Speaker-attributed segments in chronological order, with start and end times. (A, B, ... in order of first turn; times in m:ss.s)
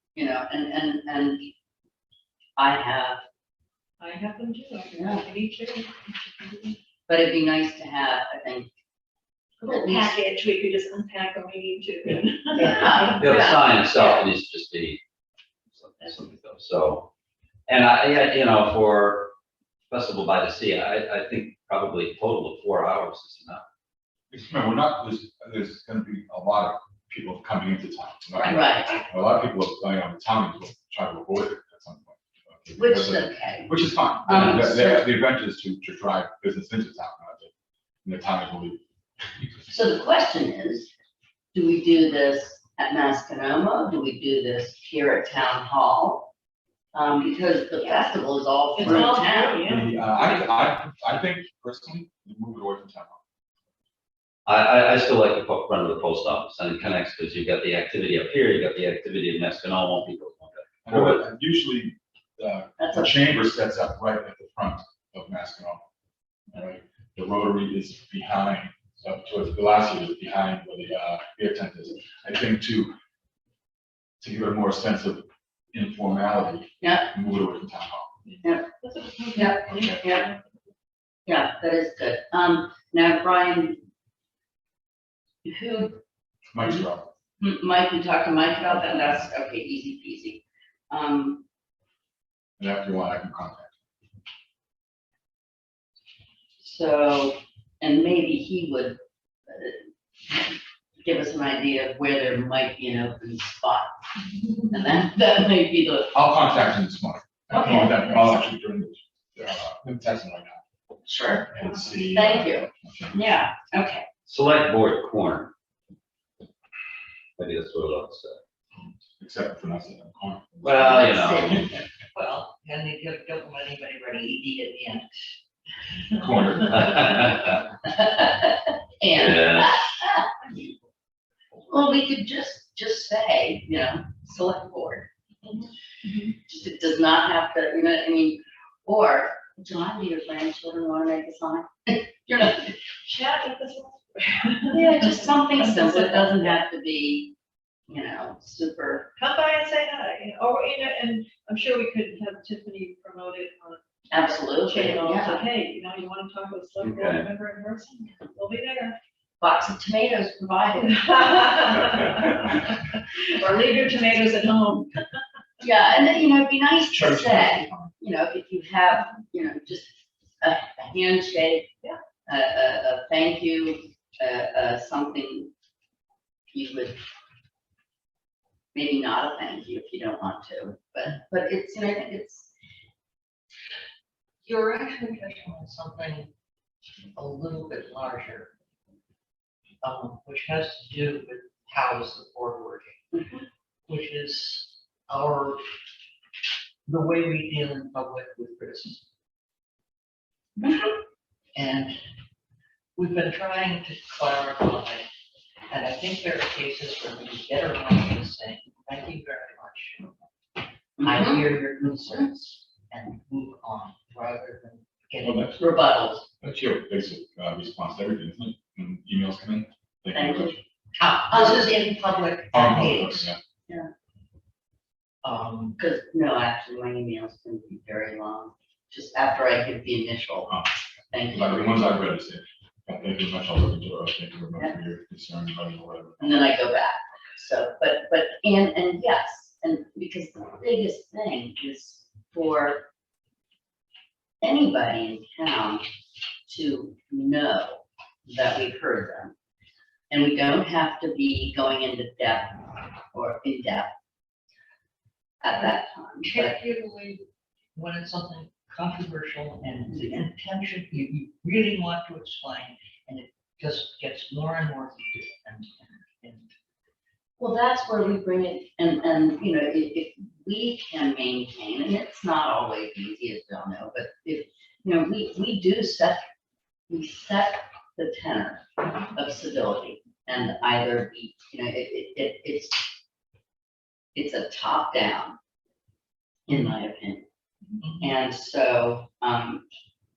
0:00.1-0:01.5 A
0:02.6-0:03.2 A
0:04.0-0:06.7 B
0:05.0-0:05.2 A
0:07.1-0:08.7 A
0:09.6-0:13.3 B
0:09.7-0:10.1 A
0:12.6-0:14.3 A
0:12.6-0:15.0 C
0:15.7-0:17.1 C
0:17.7-0:19.3 C
0:19.9-0:23.6 C
0:24.3-0:37.5 D
0:28.4-0:29.0 A
0:32.8-0:33.8 A
0:34.3-0:35.0 A
0:38.0-0:38.8 D
0:39.7-0:40.9 A
0:41.5-0:46.3 A
0:46.9-0:49.7 A
0:48.7-0:49.9 B
0:48.8-0:49.1 D
0:49.6-0:53.2 D
0:54.4-1:01.2 C
1:00.8-1:05.8 D
1:02.8-1:03.1 A
1:06.5-1:12.9 D
1:14.2-1:18.1 D
1:16.8-1:17.1 A
1:18.3-1:20.4 B
1:19.3-1:20.2 A
1:19.7-1:20.0 D
1:21.2-1:23.8 A
1:25.4-1:26.0 A
1:26.5-1:27.1 D
1:26.6-1:26.8 A
1:27.4-1:31.4 A
1:28.6-1:29.2 D
1:32.6-1:33.7 D
1:36.6-1:44.0 A
1:44.6-1:46.2 A
1:46.1-1:50.6 D
1:47.5-1:48.4 A
1:51.0-1:51.5 A
1:51.5-1:53.2 D
1:52.1-1:54.1 A
1:54.2-1:55.5 C
1:57.4-1:58.4 C
1:59.2-2:01.0 D
2:00.6-2:01.6 C
2:00.8-2:01.8 A
2:02.1-2:05.2 E
2:06.2-2:06.8 D
2:06.7-2:07.6 C
2:07.8-2:10.3 A
2:09.1-2:09.9 C
2:11.7-2:15.1 A
2:16.4-2:22.7 A
2:23.0-2:26.5 B
2:24.7-2:27.3 A
2:27.9-2:29.1 A
2:29.2-2:39.0 B
2:34.1-2:35.4 A
2:36.8-2:37.3 C
2:39.4-2:41.0 A
2:40.8-2:44.9 B
2:45.6-2:51.7 A
2:46.9-2:47.9 D
2:52.2-2:55.5 A
2:56.5-2:57.0 A
2:58.7-3:02.5 A
3:04.4-3:06.3 E
3:07.2-3:08.5 E
3:09.8-3:13.2 E
3:13.9-3:15.6 E
3:16.9-3:19.0 E
3:21.5-3:22.0 E
3:23.0-3:25.1 E
3:25.7-3:30.2 E
3:31.0-3:31.7 A
3:31.0-3:35.9 E
3:35.2-3:35.6 D
3:35.6-3:36.2 A
3:36.4-3:40.6 D
3:40.1-3:40.6 A
3:41.0-3:43.3 E
3:41.2-3:41.8 A
3:42.5-3:43.4 D
3:45.2-3:45.8 E
3:45.8-3:50.5 A
3:51.1-3:51.8 A
3:51.3-3:56.6 D
3:56.2-4:02.8 A
4:04.4-4:05.8 A
4:06.4-4:09.3 A
4:10.1-4:13.9 A
4:15.4-4:16.5 A
4:15.6-4:26.5 E
4:27.4-4:36.3 A
4:36.9-4:43.0 A
4:44.1-4:45.4 A
4:46.5-4:47.2 A
4:46.5-4:46.8 E
4:47.8-4:48.2 E
4:48.0-4:49.6 A